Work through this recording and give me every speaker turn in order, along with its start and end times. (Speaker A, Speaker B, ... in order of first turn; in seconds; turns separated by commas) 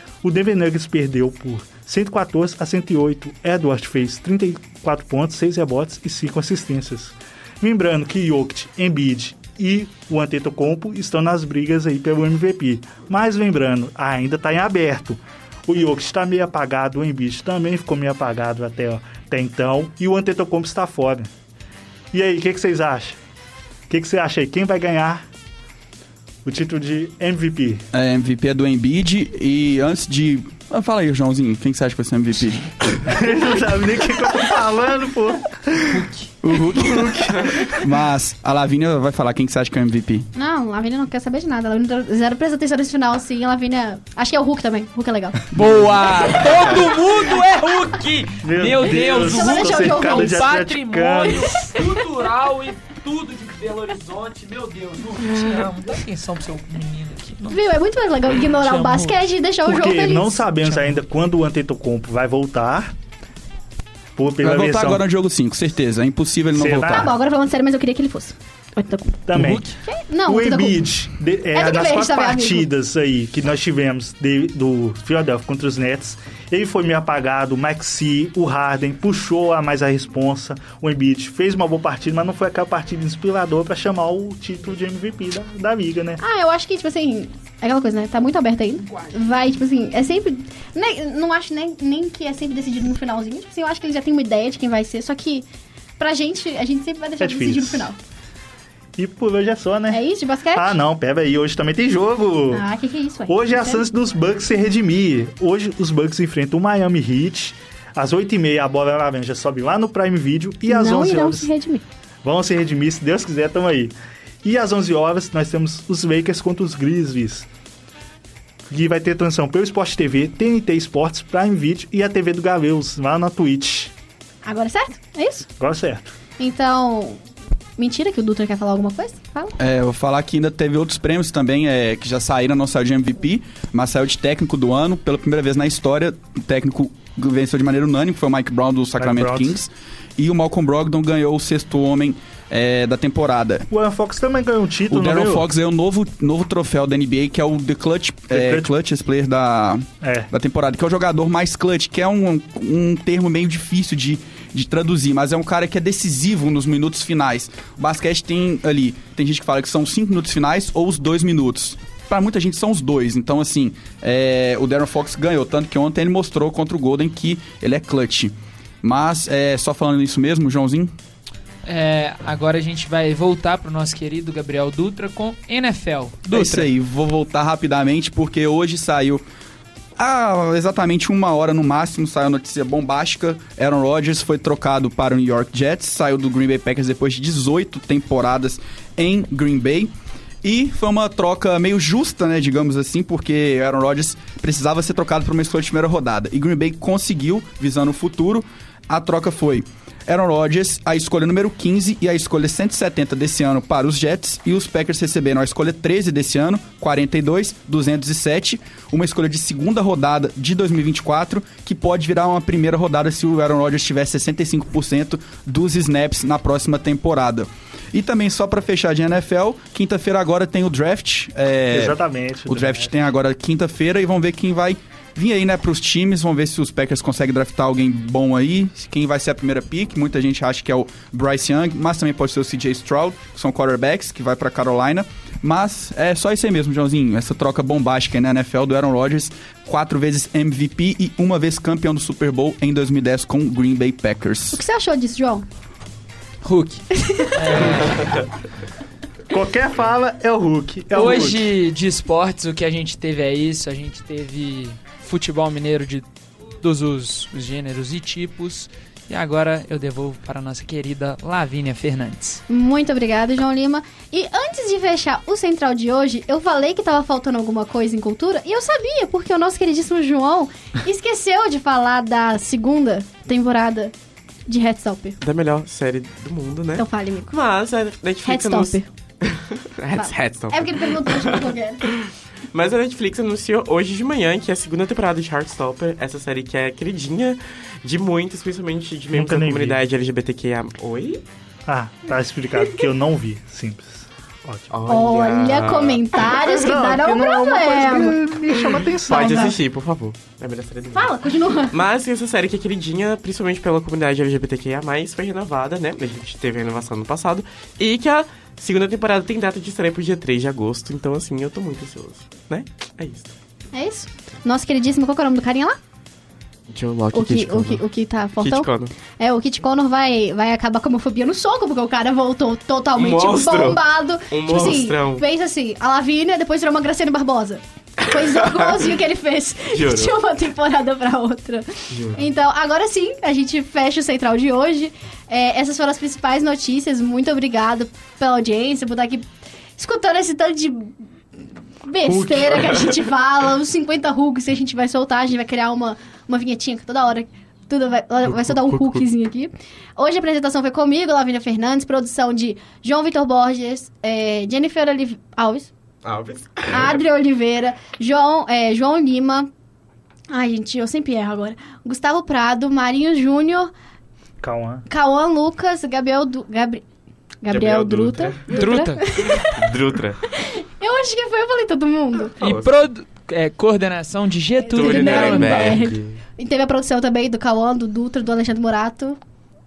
Speaker A: 0.2-21.3, Speaker A: 22.1-23.2, Speaker A: 23.9-25.2, Speaker A: 26.4-27.8, Speaker B: 27.9-33.0, Speaker A: 33.0-36.0, Speaker C: 35.9-37.1, Speaker B: 36.4-40.3, Speaker A: 37.0-37.7, Speaker D: 40.3-45.4, Speaker C: 45.5-57.6, Speaker A: 48.4-51.4, Speaker D: 48.9-50.5, Speaker D: 51.3-52.0, Speaker D: 57.5-60.4, Speaker C: 58.4-59.2, Speaker A: 59.6-62.9, Speaker C: 60.6-61.0, Speaker A: 64.2-65.0, Speaker B: 64.4-67.1, Speaker A: 66.5-67.1, Speaker D: 66.9-69.2, Speaker A: 69.3-69.7, Speaker C: 69.3-69.7, Speaker D: 69.8-70.8, Speaker A: 70.2-86.2, Speaker D: 71.5-72.7, Speaker D: 86.2-95.5, Speaker D: 96.0-98.0, Speaker A: 97.2-97.9, Speaker A: 99.0-100.0, Speaker D: 99.9-100.8, Speaker A: 100.5-102.6, Speaker D: 102.5-103.8, Speaker A: 103.3-111.5, Speaker D: 110.7-111.8, Speaker A: 112.2-117.5, Speaker A: 118.7-123.9, Speaker D: 124.4-125.5, Speaker A: 125.6-126.1, Speaker D: 126.4-127.2, Speaker D: 127.8-129.6, Speaker B: 129.6-143.7, Speaker A: 139.0-139.6, Speaker A: 143.7-145.4, Speaker B: 144.9-170.9, Speaker A: 148.3-148.7, Speaker A: 150.0-150.3, Speaker C: 171.6-176.7, Speaker B: 176.3-179.2, Speaker B: 180.0-189.9, Speaker B: 190.4-244.6, Speaker A: 221.7-222.9, Speaker D: 244.5-245.4, Speaker C: 246.4-248.1, Speaker D: 247.0-247.3, Speaker E: 247.8-248.2, Speaker A: 249.3-251.5, Speaker C: 250.9-256.1, Speaker C: 256.6-262.4, Speaker D: 262.5-273.9, Speaker D: 274.5-275.2, Speaker E: 275.2-291.2, Speaker D: 276.8-277.3, Speaker D: 278.2-278.9, Speaker D: 279.9-281.8, Speaker A: 289.1-289.8, Speaker A: 291.7-294.7, Speaker E: 294.7-296.7, Speaker D: 294.9-298.2, Speaker A: 296.6-299.6, Speaker E: 298.6-313.3, Speaker D: 299.1-299.5, Speaker D: 300.9-301.8, Speaker D: 313.7-315.8, Speaker E: 316.7-317.9, Speaker D: 317.1-340.9, Speaker E: 318.4-318.9, Speaker E: 322.9-325.2, Speaker E: 328.0-328.9, Speaker E: 329.7-330.2, Speaker E: 331.9-332.3, Speaker D: 341.8-355.7, Speaker E: 342.1-342.9, Speaker E: 348.2-349.0, Speaker E: 356.0-357.0, Speaker D: 356.7-359.5, Speaker D: 360.3-363.7, Speaker A: 364.4-364.9, Speaker D: 364.9-366.8, Speaker D: 367.4-372.4, Speaker E: 367.5-370.2, Speaker C: 368.5-369.0, Speaker E: 372.4-372.8, Speaker C: 372.4-375.8, Speaker E: 374.7-376.2, Speaker D: 374.7-379.2